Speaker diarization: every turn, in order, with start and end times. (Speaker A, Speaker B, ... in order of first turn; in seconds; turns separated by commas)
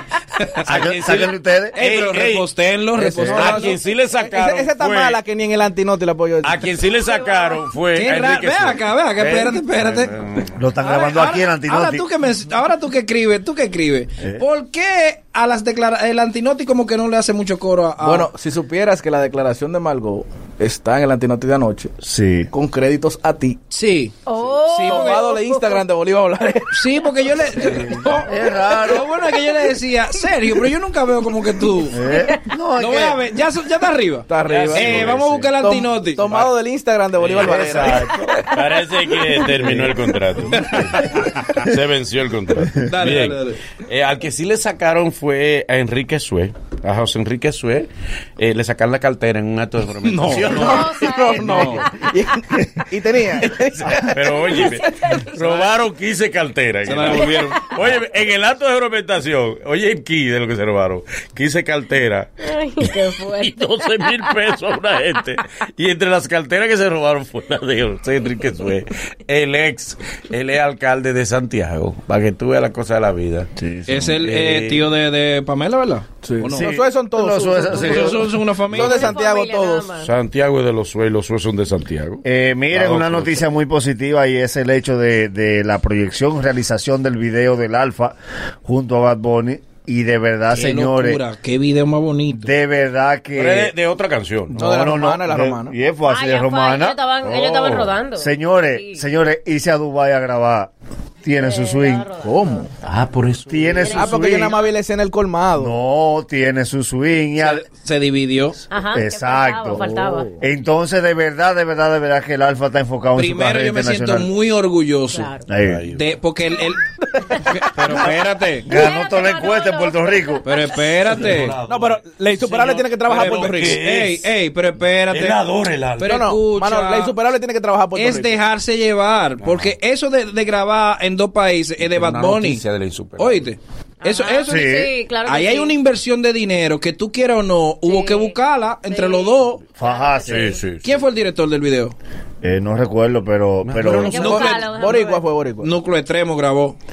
Speaker A: 0.7-2.5, Speaker B: 0.7-1.8, Speaker C: 1.7-3.8, Speaker D: 3.0-6.7, Speaker A: 3.3-5.2, Speaker A: 6.4-10.5, Speaker E: 7.1-7.6, Speaker C: 7.9-10.2, Speaker B: 10.6-12.0, Speaker C: 10.8-18.3, Speaker D: 18.0-21.9, Speaker B: 22.0-22.5, Speaker D: 22.5-23.6, Speaker C: 23.7-25.3, Speaker E: 24.2-25.8, Speaker D: 24.8-26.7, Speaker C: 26.7-32.0, Speaker D: 27.7-28.0, Speaker B: 28.3-29.1, Speaker B: 31.9-33.2, Speaker C: 32.8-36.2, Speaker D: 34.3-38.1, Speaker A: 34.5-35.5, Speaker A: 36.2-36.5, Speaker A: 37.2-51.7, Speaker B: 37.4-38.5, Speaker C: 40.5-41.0, Speaker C: 42.8-43.6, Speaker D: 50.1-54.0, Speaker C: 50.1-51.8, Speaker E: 50.6-52.1, Speaker A: 53.8-73.5, Speaker E: 54.5-55.2, Speaker C: 56.9-57.6, Speaker E: 62.5-64.1, Speaker B: 73.6-74.2, Speaker C: 73.9-76.7, Speaker A: 74.2-74.8, Speaker D: 76.2-78.2, Speaker B: 76.5-78.2, Speaker C: 77.7-79.1, Speaker D: 78.7-79.9, Speaker E: 78.8-80.1, Speaker A: 80.0-83.5, Speaker B: 82.2-91.2, Speaker C: 90.5-92.5, Speaker B: 92.3-93.7, Speaker A: 93.3-94.6, Speaker B: 94.5-97.0, Speaker D: 94.5-95.7, Speaker E: 96.0-99.0, Speaker A: 97.2-97.9, Speaker B: 98.2-100.7, Speaker B: 101.2-102.1, Speaker E: 101.4-102.7, Speaker D: 102.2-102.7, Speaker A: 102.8-104.0, Speaker B: 103.5-104.5, Speaker E: 103.8-104.7, Speaker D: 103.9-105.8, Speaker B: 105.5-107.6, Speaker C: 107.4-108.6, Speaker E: 108.7-110.3, Speaker B: 108.9-109.8, Speaker D: 109.7-110.3, Speaker B: 110.4-114.3, Speaker C: 113.2-115.3, Speaker E: 115.1-115.5, Speaker B: 115.5-115.8, Speaker A: 115.6-116.0, Speaker C: 115.9-116.8, Speaker C: 117.5-118.7, Speaker B: 118.7-120.4, Speaker E: 118.7-120.8, Speaker C: 120.4-121.5, Speaker A: 121.0-122.0, Speaker D: 121.7-123.8, Speaker C: 122.4-125.4, Speaker A: 123.1-124.2, Speaker A: 125.1-126.2, Speaker C: 126.0-127.1, Speaker D: 126.0-128.4, Speaker C: 127.9-132.6, Speaker A: 129.4-129.7, Speaker A: 131.8-133.4, Speaker C: 133.2-139.6, Speaker E: 134.0-135.7, Speaker B: 134.5-134.9, Speaker E: 137.8-138.4, Speaker E: 138.9-140.5, Speaker B: 139.8-140.5, Speaker A: 140.3-140.9, Speaker C: 140.8-141.9, Speaker B: 142.4-144.3, Speaker A: 143.6-144.5, Speaker E: 144.0-145.2, Speaker D: 144.1-145.7, Speaker C: 144.3-144.6, Speaker C: 145.6-146.8